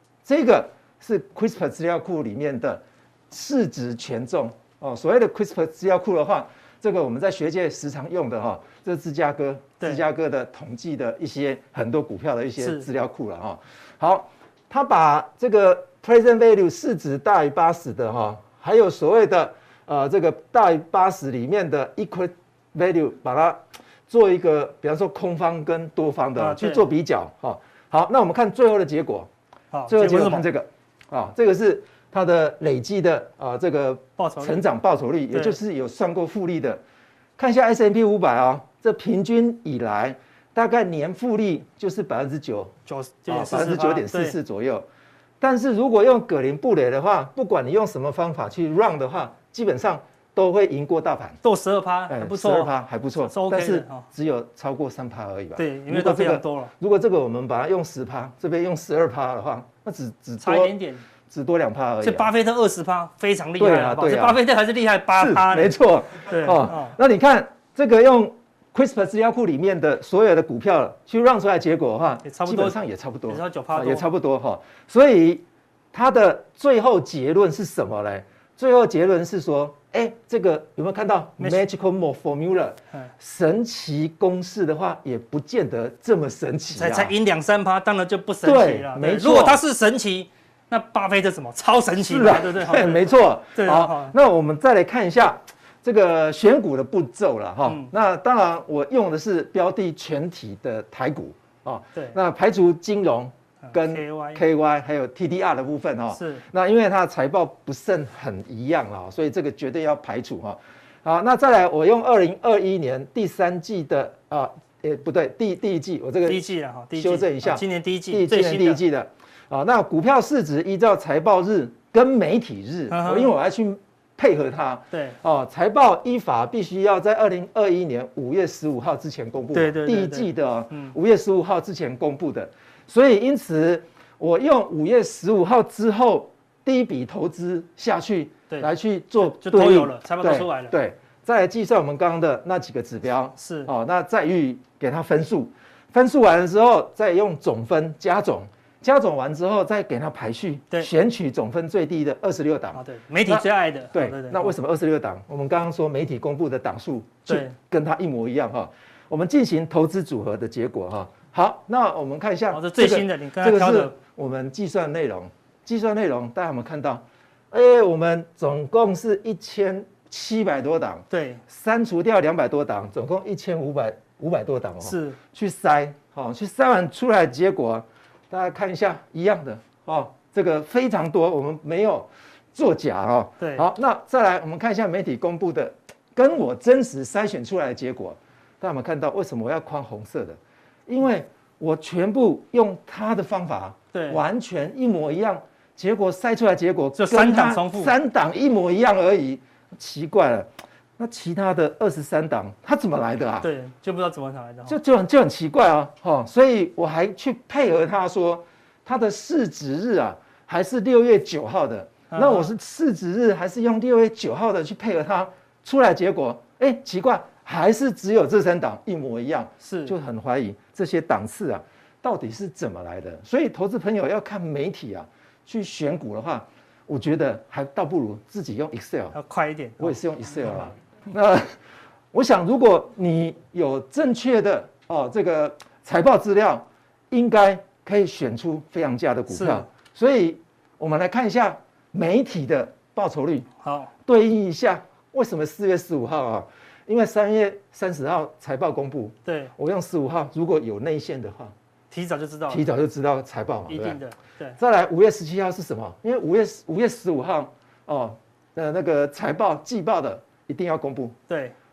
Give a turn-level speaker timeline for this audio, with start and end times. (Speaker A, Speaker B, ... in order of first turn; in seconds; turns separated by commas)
Speaker A: 0.2-29.3, Speaker B: 12.6-12.9, Speaker B: 26.4-26.9, Speaker B: 29.7-30.4, Speaker A: 29.9-36.8, Speaker B: 34.2-34.6, Speaker B: 35.3-35.6, Speaker A: 37.4-42.7, Speaker B: 42.9-44.4, Speaker A: 43.3-44.9, Speaker A: 45.4-51.4, Speaker B: 51.4-52.7, Speaker A: 52.1-60.7, Speaker B: 53.2-54.1, Speaker B: 55.5-56.7, Speaker B: 60.4-61.0, Speaker A: 61.3-62.3, Speaker B: 62.0-67.0, Speaker A: 63.6-64.4, Speaker A: 65.1-87.1, Speaker B: 72.2-72.8, Speaker B: 73.3-74.0, Speaker B: 81.4-81.7, Speaker B: 86.7-94.1, Speaker A: 88.4-89.6, Speaker A: 92.0-203.5, Speaker B: 97.7-97.9, Speaker B: 103.7-104.4, Speaker B: 106.1-106.4, Speaker B: 116.2-118.8, Speaker B: 122.9-123.3, Speaker B: 124.9-125.2, Speaker B: 129.5-130.9, Speaker B: 139.2-140.8, Speaker B: 143.4-143.7, Speaker B: 152.7-154.6, Speaker B: 157.3-157.6, Speaker B: 162.5-163.9, Speaker B: 171.1-171.4, Speaker B: 174.8-175.2, Speaker B: 183.4-183.7, Speaker B: 193.9-194.2, Speaker B: 196.9-197.9, Speaker B: 203.4-204.8, Speaker A: 204.7-229.2, Speaker B: 212.1-212.5, Speaker B: 219.6-219.9, Speaker B: 229.1-230.0, Speaker A: 229.8-231.6, Speaker A: 232.1-243.5, Speaker B: 239.3-239.7, Speaker B: 243.6-243.9, Speaker A: 244.1-251.5, Speaker B: 249.2-249.5, Speaker B: 251.9-252.6, Speaker A: 252.5-254.0, Speaker B: 253.7-254.6, Speaker A: 254.6-261.1, Speaker B: 261.3-261.5